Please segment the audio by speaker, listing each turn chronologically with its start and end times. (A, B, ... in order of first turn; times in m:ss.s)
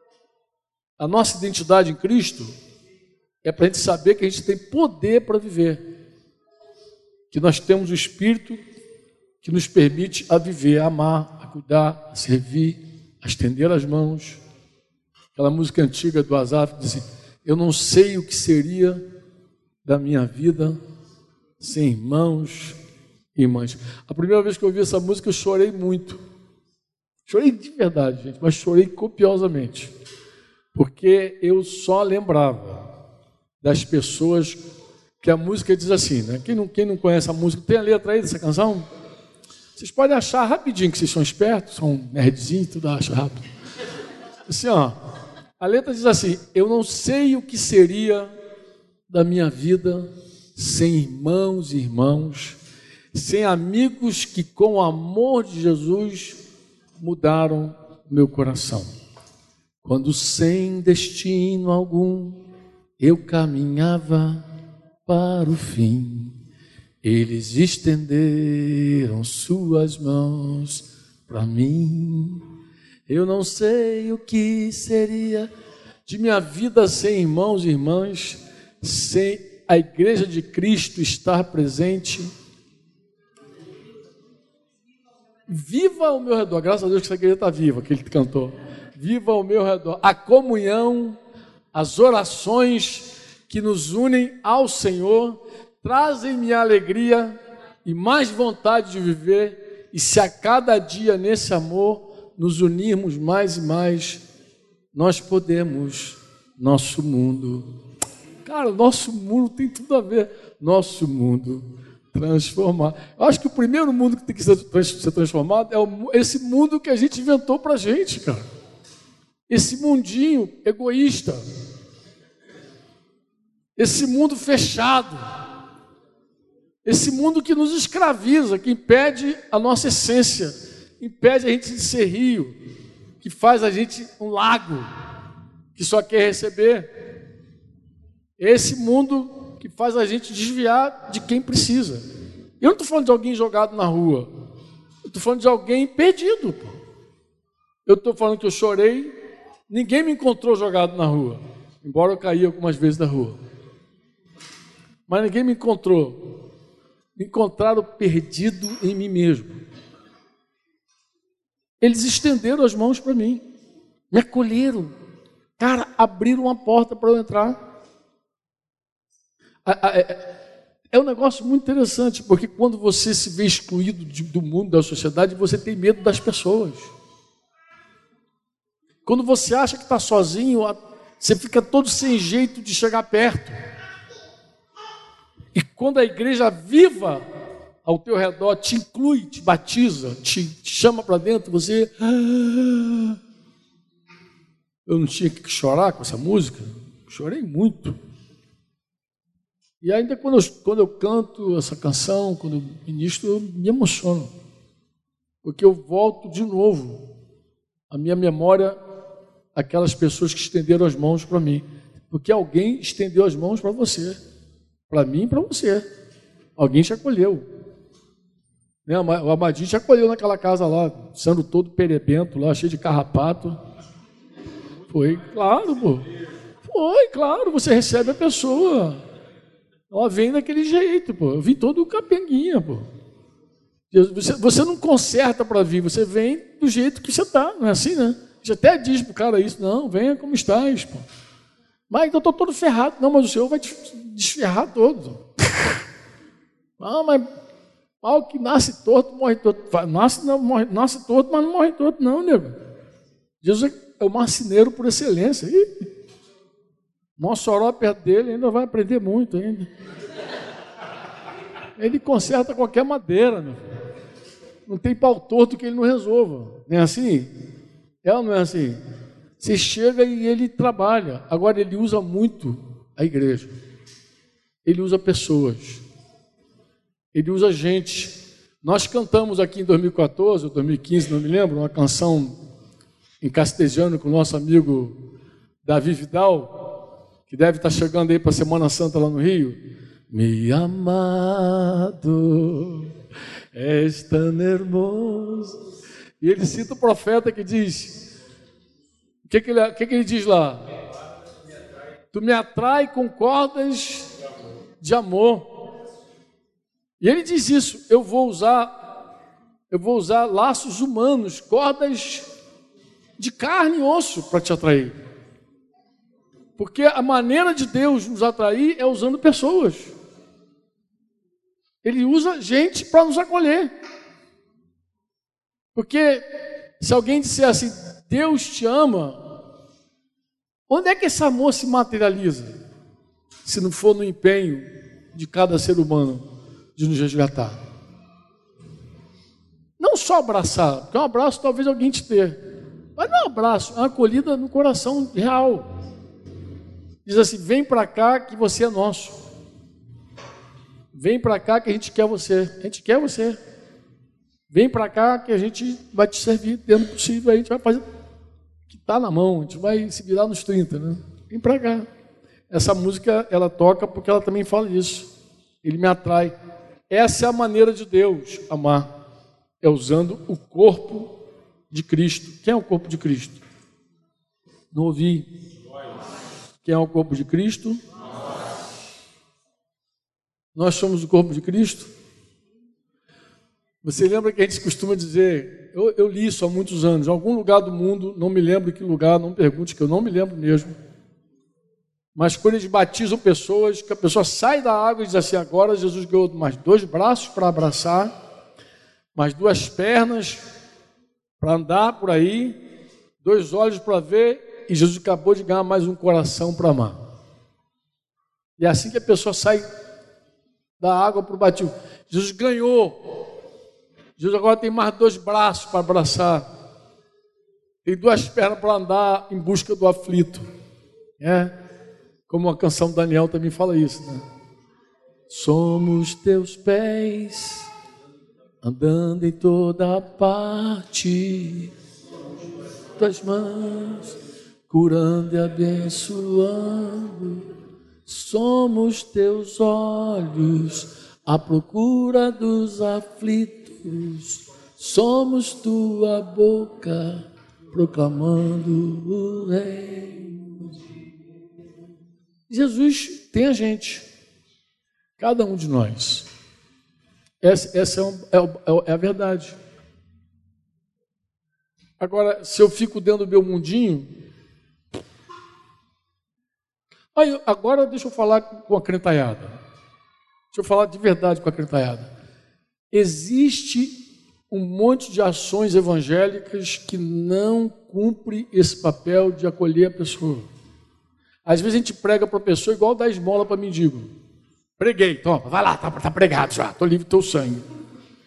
0:01.0-0:02.5 A
0:03.4-0:05.8 A
0:07.3-0:08.6 A
0:09.4-0:14.4 A
0:15.3-0:19.0 A
0:19.8-0:20.8 A
0:21.6-0:22.8 A
0:23.3-0:26.2 A
0:27.3-0:29.9 A
0:30.7-0:32.8 A
0:33.6-0:34.6 A
0:35.2-0:38.8 A
0:39.8-0:43.4 A
0:44.5-0:45.0 A
0:45.6-0:48.3 A
0:49.1-0:52.6 A
0:53.1-0:56.4 A
0:57.0-0:58.9 A
0:59.8-1:02.4 A
1:03.0-1:04.4 A
1:05.0-1:06.3 A
1:07.0-1:12.4 A
1:13.1-1:15.5 A
1:16.0-1:22.3 A
1:25.5-1:31.2 A
1:31.7-1:44.2 A
1:44.9-1:47.6 A
1:48.4-1:58.4 A
1:59.5-2:01.4 A
2:03.8-2:05.2 A
2:06.8-2:12.5 A
2:13.2-2:14.9 A
2:15.7-2:16.9 A
2:18.4-2:22.0 A
2:22.6-2:24.3 A
2:25.0-2:26.7 A
2:27.8-2:29.1 A
2:29.7-2:33.4 A
2:35.1-2:36.2 A
2:37.2-2:39.5 A
2:41.8-2:43.4 A
2:44.1-2:44.9 A
2:45.6-2:47.6 A
2:49.6-2:50.3 A
2:50.9-2:56.9 A
2:59.0-3:03.6 A
3:05.5-3:07.2 A
3:07.8-3:13.2 A
3:14.9-3:18.0 A
3:19.8-3:24.3 A
3:25.4-3:27.0 A
3:27.9-3:28.8 A
3:29.5-3:34.2 A
3:34.9-3:35.8 A
3:36.6-3:37.4 A
3:38.8-3:43.6 A
3:44.9-3:46.0 A
3:46.6-3:49.0 A
3:49.9-3:52.8 A
3:53.9-4:01.0 A
4:01.9-4:05.2 A
4:06.8-4:07.2 A
4:08.0-4:12.6 A
4:13.4-4:15.8 A
4:17.2-4:19.7 A
4:21.8-4:23.7 A
4:24.7-4:27.3 A
4:28.0-4:28.8 A
4:29.4-4:33.5 A
4:34.6-4:35.8 A
4:37.1-4:42.4 A
4:43.2-4:44.9 A
4:45.6-4:46.5 A
4:47.3-4:49.6 A
4:50.1-4:52.9 A
4:53.5-4:55.6 A
4:56.2-4:58.0 A
4:59.2-5:00.6 A
5:02.1-5:04.1 A
5:04.8-5:05.5 A
5:07.0-5:08.7 A
5:09.7-5:12.2 A
5:13.2-5:15.0 A
5:16.6-5:19.9 A
5:21.8-5:23.7 A
5:25.7-5:26.2 A
5:26.8-5:29.2 A
5:30.7-5:32.5 A
5:33.4-5:36.2 A
5:36.8-5:37.6 A
5:39.8-5:42.4 A
5:43.0-5:45.7 A
5:47.0-5:49.2 A
5:50.9-5:53.4 A
5:54.5-5:57.8 A
5:58.7-6:01.9 A
6:02.5-6:05.1 A
6:05.6-6:06.3 A
6:06.9-6:08.9 A
6:09.6-6:11.1 A
6:11.7-6:13.4 A
6:14.7-6:15.3 A
6:16.6-6:17.8 A
6:20.5-6:21.9 A
6:23.8-6:30.7 A
6:32.1-6:38.1 A
6:39.1-6:40.4 A
6:41.4-6:42.5 A
6:43.2-6:47.0 A
6:48.6-6:49.6 A
6:50.8-6:53.0 A
6:54.2-6:56.5 A
6:57.8-7:00.4 A
7:01.2-7:01.5 A
7:02.3-7:04.2 A
7:05.3-7:07.7 A
7:08.6-7:11.7 A
7:13.0-7:14.1 A
7:14.7-7:17.4 A
7:18.0-7:30.7 A
7:32.5-7:34.0 A
7:35.2-7:36.3 A
7:37.4-7:39.6 A
7:42.0-7:44.1 A
7:47.1-7:49.5 A
7:50.5-7:52.1 A
7:52.9-8:00.5 A
8:01.4-8:04.1 A
8:04.8-8:07.6 A